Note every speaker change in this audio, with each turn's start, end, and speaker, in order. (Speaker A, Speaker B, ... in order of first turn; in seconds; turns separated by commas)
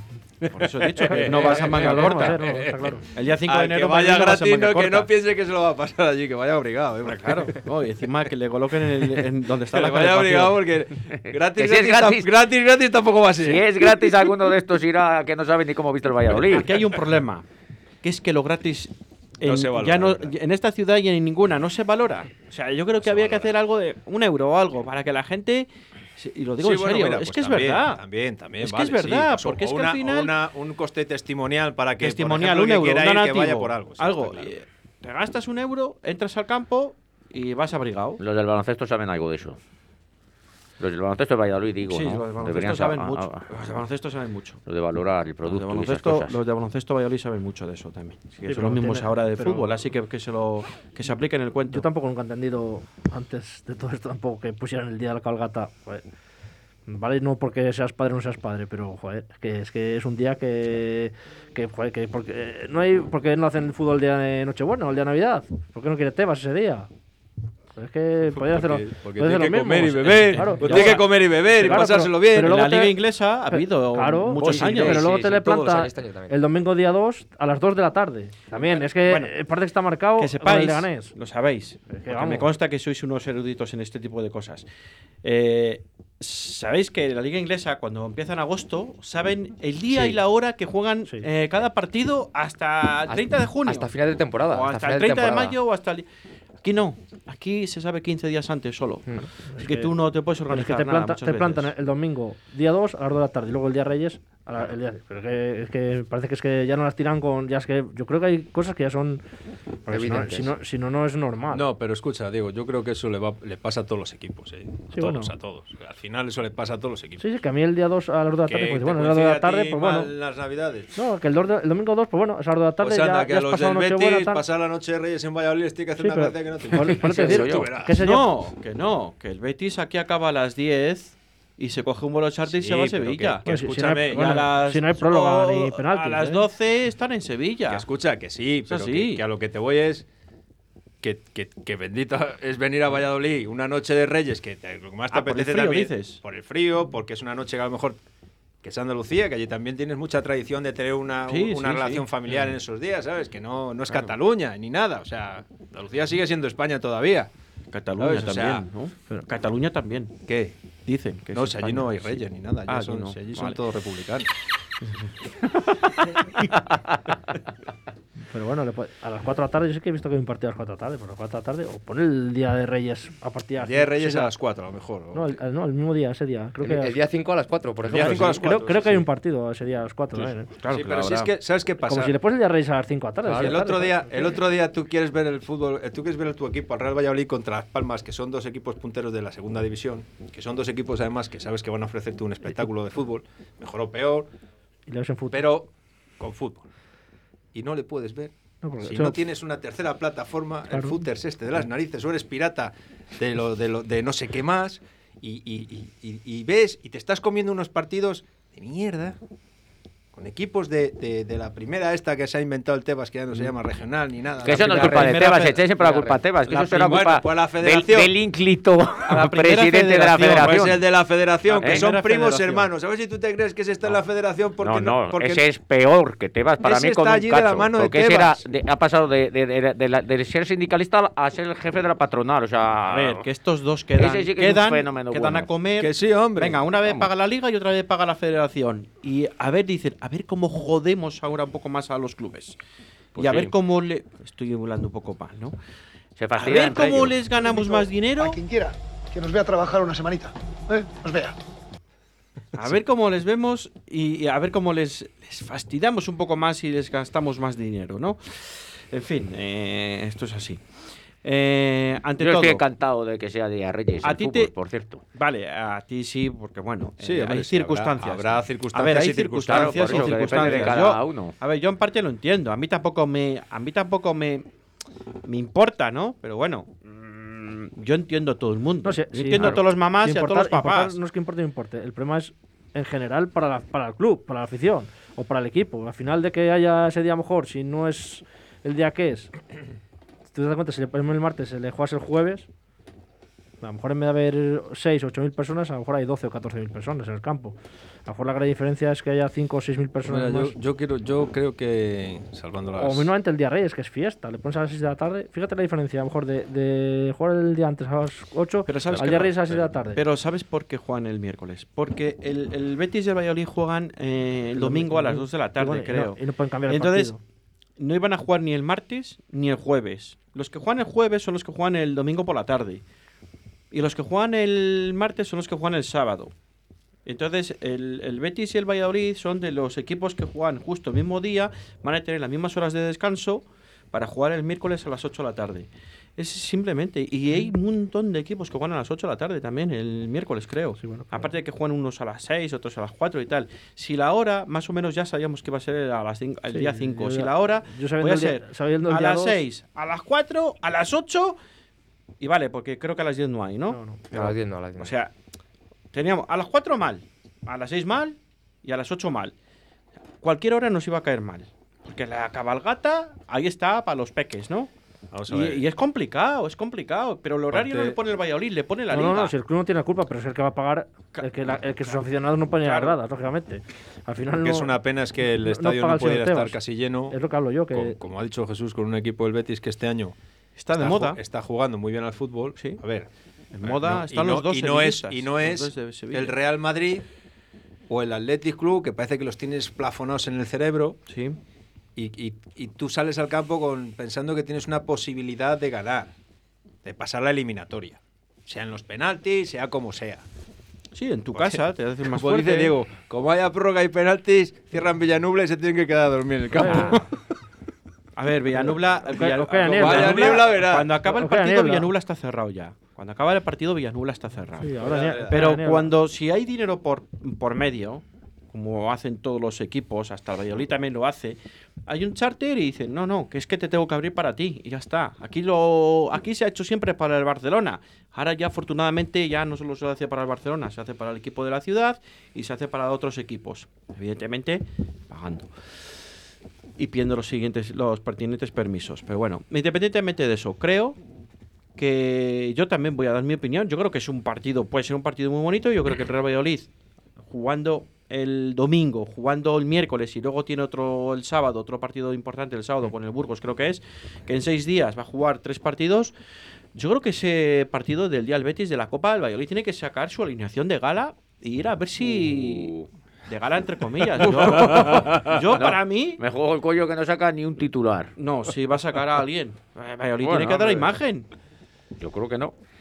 Speaker A: 0.4-7.6, Speaker B: 0.5-2.6, Speaker C: 1.1-3.0, Speaker B: 3.1-5.1, Speaker B: 7.0-10.7, Speaker A: 9.7-14.4, Speaker D: 11.2-12.3, Speaker D: 13.4-16.7, Speaker B: 16.4-17.4, Speaker B: 18.0-28.0, Speaker A: 19.4-20.3, Speaker A: 23.0-23.5, Speaker A: 26.6-34.5, Speaker B: 28.6-30.3, Speaker B: 32.0-38.2, Speaker D: 38.2-39.6, Speaker D: 40.8-43.5, Speaker B: 41.9-44.6, Speaker D: 44.7-46.4, Speaker B: 45.4-51.9, Speaker C: 48.5-49.7, Speaker C: 51.7-56.0, Speaker C: 56.9-66.9, Speaker C: 67.8-73.0, Speaker A: 68.3-72.6, Speaker B: 70.0-71.1, Speaker B: 72.4-75.0, Speaker C: 73.5-81.1, Speaker E: 74.5-76.4, Speaker B: 79.0-79.3, Speaker B: 80.2-84.7, Speaker C: 81.9-82.5, Speaker B: 85.2-93.9, Speaker E: 93.1-95.6, Speaker B: 94.5-96.0, Speaker B: 96.6-101.7, Speaker C: 99.5-99.9, Speaker C: 100.5-109.2, Speaker C: 109.8-111.7, Speaker E: 109.9-110.5, Speaker A: 111.5-117.3, Speaker C: 114.9-115.3, Speaker C: 117.2-120.1, Speaker A: 118.5-120.9, Speaker C: 121.0-124.4, Speaker A: 122.8-127.9, Speaker C: 126.0-128.3, Speaker D: 127.0-127.7, Speaker B: 128.0-137.8, Speaker A: 132.5-134.5, Speaker C: 133.5-136.4, Speaker A: 137.7-140.1, Speaker B: 138.7-139.2, Speaker A: 141.0-148.0, Speaker B: 145.1-146.2, Speaker A: 148.6-157.3, Speaker B: 151.3-152.3, Speaker B: 153.9-154.1, Speaker B: 157.7-160.2, Speaker A: 158.0-158.6, Speaker A: 160.3-160.5, Speaker B: 160.9-163.6, Speaker A: 161.3-164.3, Speaker C: 168.3-174.3, Speaker A: 173.6-175.4, Speaker C: 175.1-177.0, Speaker E: 176.6-178.4, Speaker B: 177.9-178.4, Speaker A: 177.9-179.1, Speaker C: 178.1-180.5, Speaker B: 180.2-181.3, Speaker A: 180.7-182.2, Speaker C: 181.8-184.4, Speaker A: 183.3-194.3, Speaker C: 194.9-195.4, Speaker A: 195.3-196.7, Speaker A: 197.5-209.2, Speaker C: 198.6-199.2, Speaker C: 200.7-201.0, Speaker A: 210.1-218.2, Speaker D: 214.4-220.8, Speaker B: 214.5-215.6, Speaker B: 219.1-220.8, Speaker A: 220.3-225.5, Speaker B: 221.5-222.7, Speaker D: 221.6-221.9, Speaker D: 224.6-233.3, Speaker A: 226.6-228.4, Speaker B: 232.9-242.6, Speaker D: 233.9-235.5, Speaker A: 235.8-236.7, Speaker B: 243.2-245.6, Speaker D: 243.2-243.5, Speaker D: 246.2-247.2, Speaker B: 246.4-248.4, Speaker F: 247.2-251.3, Speaker B: 252.6-260.6, Speaker B: 261.2-262.6, Speaker D: 262.2-265.0, Speaker B: 264.0-264.5, Speaker B: 265.2-274.4, Speaker A: 267.0-270.9, Speaker D: 269.4-271.4, Speaker B: 275.2-281.0, Speaker C: 278.9-289.3, Speaker D: 279.4-279.6, Speaker C: 290.3-292.5, Speaker C: 293.6-300.5, Speaker A: 300.0-303.1, Speaker C: 302.8-310.0, Speaker B: 308.7-316.2, Speaker A: 308.8-309.7, Speaker C: 314.6-317.2, Speaker B: 316.7-317.1, Speaker B: 317.8-322.8, Speaker B: 323.7-326.3, Speaker B: 327.1-351.4, Speaker C: 340.8-341.3, Speaker C: 346.5-349.4, Speaker B: 352.2-355.1, Speaker C: 353.7-354.0, Speaker E: 354.1-354.9, Speaker B: 355.9-359.3, Speaker B: 360.2-364.7, Speaker A: 365.1-365.6, Speaker B: 365.3-369.3, Speaker A: 367.5-368.0, Speaker C: 368.9-374.8, Speaker B: 371.1-371.6, Speaker B: 372.6-372.9, Speaker A: 374.4-377.2, Speaker C: 375.4-376.6, Speaker C: 377.1-378.0, Speaker A: 377.7-380.1, Speaker B: 380.6-381.2, Speaker A: 380.8-383.1, Speaker B: 383.5-386.4, Speaker A: 383.6-387.1, Speaker A: 387.9-391.0, Speaker B: 391.1-391.4, Speaker A: 392.0-396.1, Speaker A: 396.8-400.2, Speaker B: 400.9-402.7, Speaker A: 401.4-407.1, Speaker C: 406.6-407.0, Speaker B: 406.6-406.9, Speaker B: 408.2-435.5, Speaker C: 408.7-410.5, Speaker A: 409.6-410.9, Speaker C: 411.1-411.9, Speaker C: 414.6-415.9, Speaker A: 414.8-415.6, Speaker B: 436.8-441.0, Speaker B: 441.8-446.7, Speaker B: 447.3-456.1, Speaker B: 456.8-466.2, Speaker D: 465.6-468.1, Speaker B: 468.2-471.3, Speaker D: 470.2-470.9, Speaker D: 472.0-472.6